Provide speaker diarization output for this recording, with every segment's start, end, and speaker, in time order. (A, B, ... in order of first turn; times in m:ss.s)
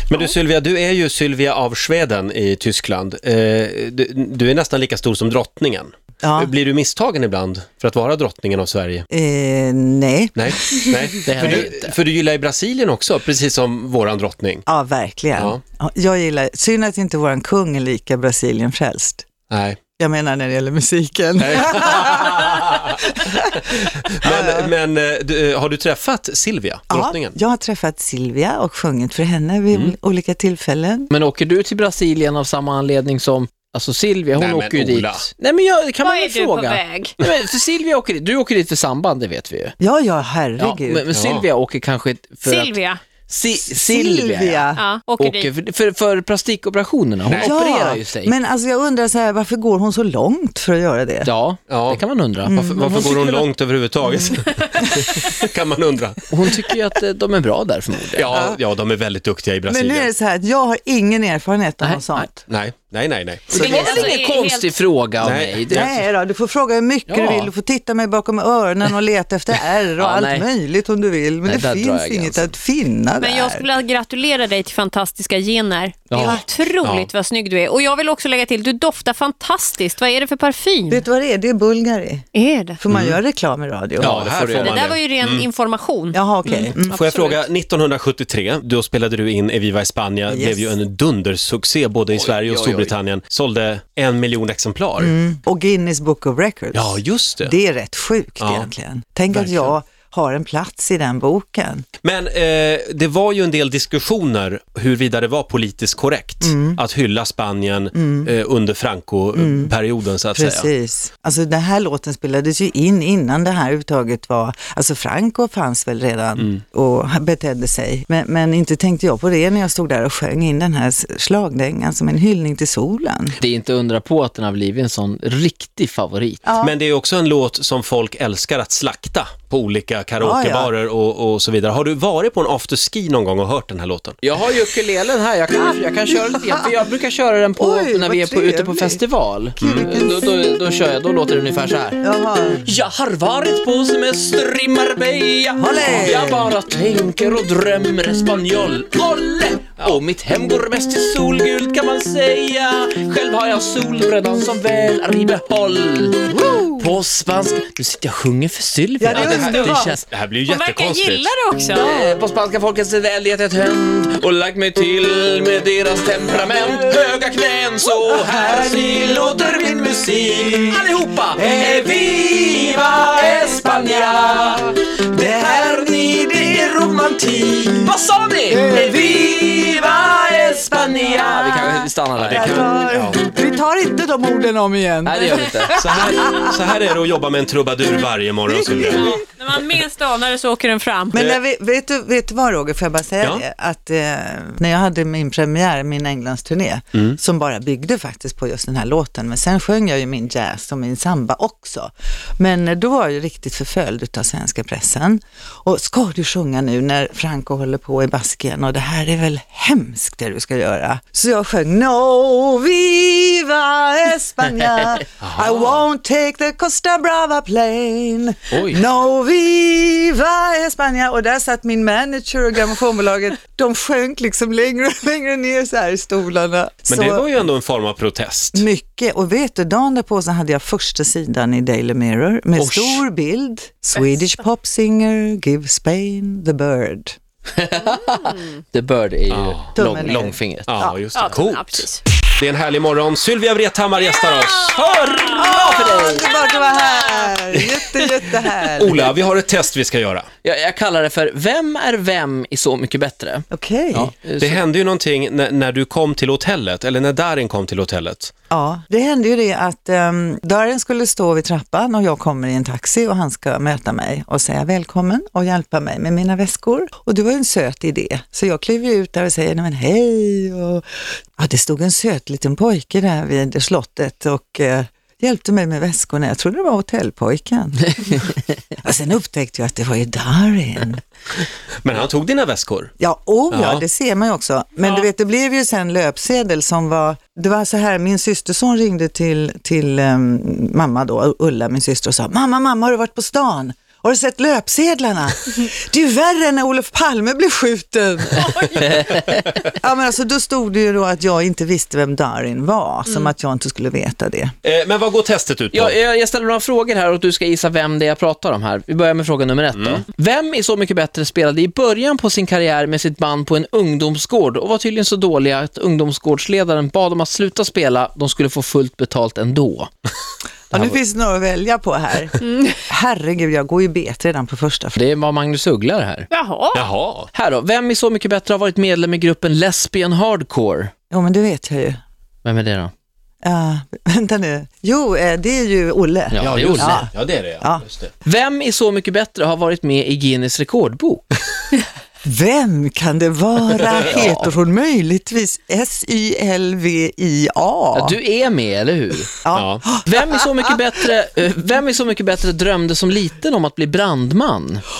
0:00.1-0:09.1 A
0:06.2-0:06.5 B
0:09.1-0:11.6 B
0:10.3-0:14.6 A
0:11.2-0:11.9 C
0:14.7-0:19.2 B
0:19.5-0:19.8 A
0:20.0-0:23.7 B
0:21.4-0:23.0 A
0:23.6-0:27.4 A
0:24.2-0:24.7 B
0:26.9-0:31.1 B
0:31.1-0:39.8 C
0:34.4-0:35.3 A
0:36.0-0:37.2 D
0:39.8-0:41.0 B
0:40.6-0:48.3 C
0:41.1-0:41.4 A
0:42.4-0:43.0 D
0:43.6-0:44.8 B
0:44.8-0:45.5 D
0:47.3-0:47.5 A
0:47.4-0:51.3 B
0:51.2-0:53.5 C
0:51.7-0:56.5 A
0:52.4-0:53.2 B
0:54.1-0:55.3 B
0:56.3-0:58.3 C
0:58.1-1:00.1 A
0:59.7-1:02.4 B
1:01.8-1:02.3 C
1:02.5-1:04.1 A
1:03.5-1:06.0 C
1:03.5-1:04.1 B
1:03.5-1:04.7 D
1:05.2-1:05.9 A
1:05.7-1:13.7 B
1:07.1-1:07.5 C
1:10.0-1:10.5 C
1:11.4-1:12.6 C
1:13.2-1:21.0 D
1:16.8-1:17.1 A
1:20.9-1:22.3 B
1:22.3-1:22.8 D
1:22.8-1:24.4 B
1:22.9-1:23.2 A
1:24.0-1:25.5 A
1:24.0-1:24.7 C
1:24.5-1:27.4 D
1:26.1-1:27.0 B
1:26.8-1:35.1 A
1:30.3-1:30.8 B
1:32.3-1:32.9 C
1:35.0-1:41.8 B
1:36.7-1:37.6 A
1:38.4-1:38.7 A
1:39.3-1:39.7 A
1:42.0-1:50.7 A
1:46.4-1:46.8 B
1:47.9-1:48.3 B
1:49.3-1:49.7 B
1:50.3-2:03.4 B
2:03.4-2:06.4 C
2:06.4-2:06.7 B
2:06.6-2:14.2 A
2:10.2-2:10.7 B
2:14.2-2:22.0 C
2:16.1-2:16.8 B
2:17.6-2:19.0 B
2:19.6-2:20.4 B
2:22.0-2:22.6 B
2:22.6-2:40.1 C
2:25.6-2:26.4 B
2:36.4-2:36.8 B
2:39.0-2:39.9 B
2:39.2-2:41.3 A
2:39.3-2:39.8 D
2:40.4-2:42.1 D
2:41.7-2:56.6 C
2:48.0-2:48.9 B
2:55.2-2:57.9 B
2:57.6-3:02.7 C
2:58.5-2:59.1 B
3:00.8-3:06.5 B
3:02.2-3:03.2 A
3:05.0-3:05.7 C
3:05.7-3:09.2 A
3:08.5-3:09.1 B
3:08.9-3:11.2 D
3:11.1-3:47.3 B
3:46.9-3:48.6 A
3:48.5-3:57.2 B
3:52.6-3:53.0 C
3:57.6-4:00.8 C
3:58.1-3:58.4 D
3:59.3-4:05.4 A
3:59.8-4:00.4 B
4:00.8-4:02.0 D
4:04.7-4:06.3 C
4:05.3-4:09.1 B
4:06.4-4:07.2 D
4:08.7-4:10.3 A
4:10.4-4:14.6 C
4:13.5-4:14.1 B
4:14.4-4:18.3 A
4:18.5-4:30.8 B
4:31.4-4:41.0 B
4:41.8-4:42.9 A
4:43.0-5:04.5 B
4:43.5-4:43.8 A
5:04.6-5:06.0 A
5:05.7-5:19.9 C
5:09.7-5:10.0 A
5:20.7-5:25.0 B
5:22.4-5:22.8 D
5:25.0-5:26.3 C
5:26.3-5:26.8 D
5:26.7-5:27.3 A
5:27.3-5:30.9 C
5:31.1-5:32.0 B
5:32.4-5:32.9 C
5:33.4-5:37.1 B
5:36.3-5:37.1 C
5:36.4-5:38.1 A
5:38.2-5:41.3 C
5:42.2-5:48.2 B
5:43.9-5:44.5 C
5:47.9-5:49.4 C
5:49.4-5:50.7 B
5:49.5-5:49.9 A
5:50.0-5:54.8 C